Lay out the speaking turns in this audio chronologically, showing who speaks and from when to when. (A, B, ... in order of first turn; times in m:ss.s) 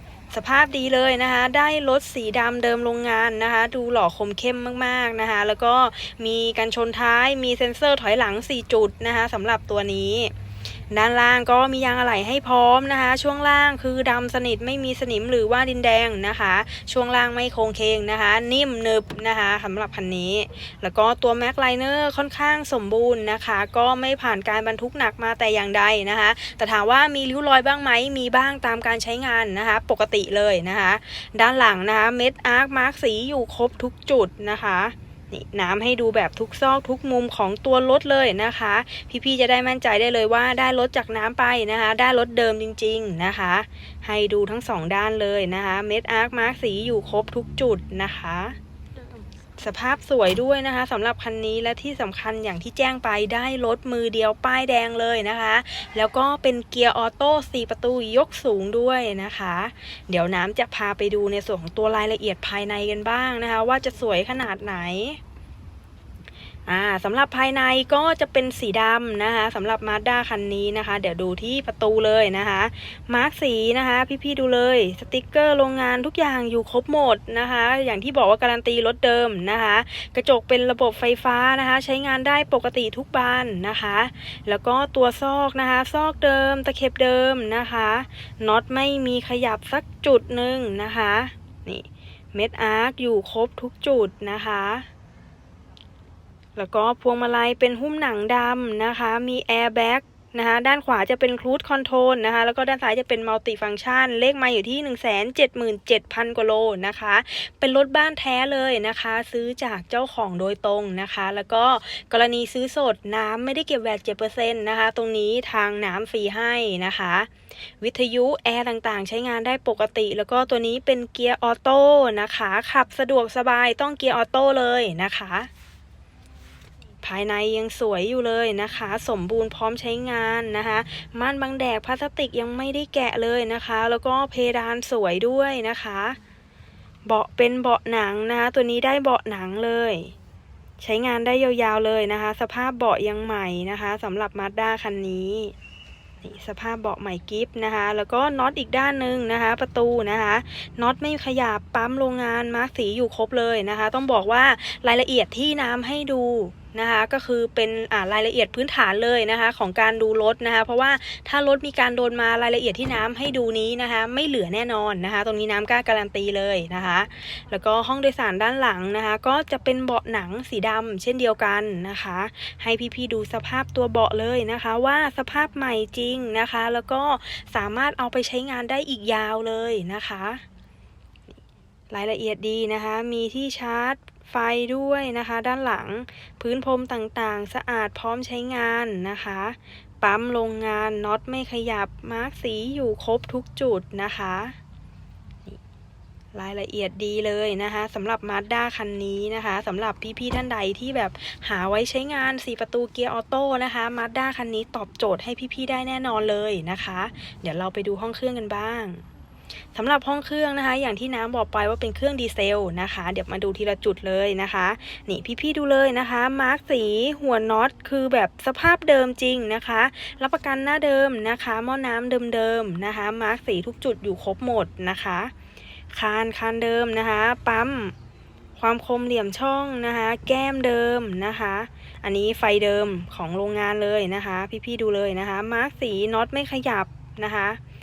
0:00.3-0:10.3 A
0:10.9-0:48.6 A
0:49.6-1:05.2 A
1:06.7-1:34.8 A
1:36.6-1:57.3 A
1:57.8-2:05.5 A
2:07.0-2:16.2 A
2:17.0-2:20.1 A
2:20.8-2:25.5 A
2:26.2-3:00.4 A
3:01.9-3:14.6 A
3:16.3-3:29.0 A
3:29.7-3:45.3 A
3:45.9-3:47.9 A
3:48.6-3:57.6 A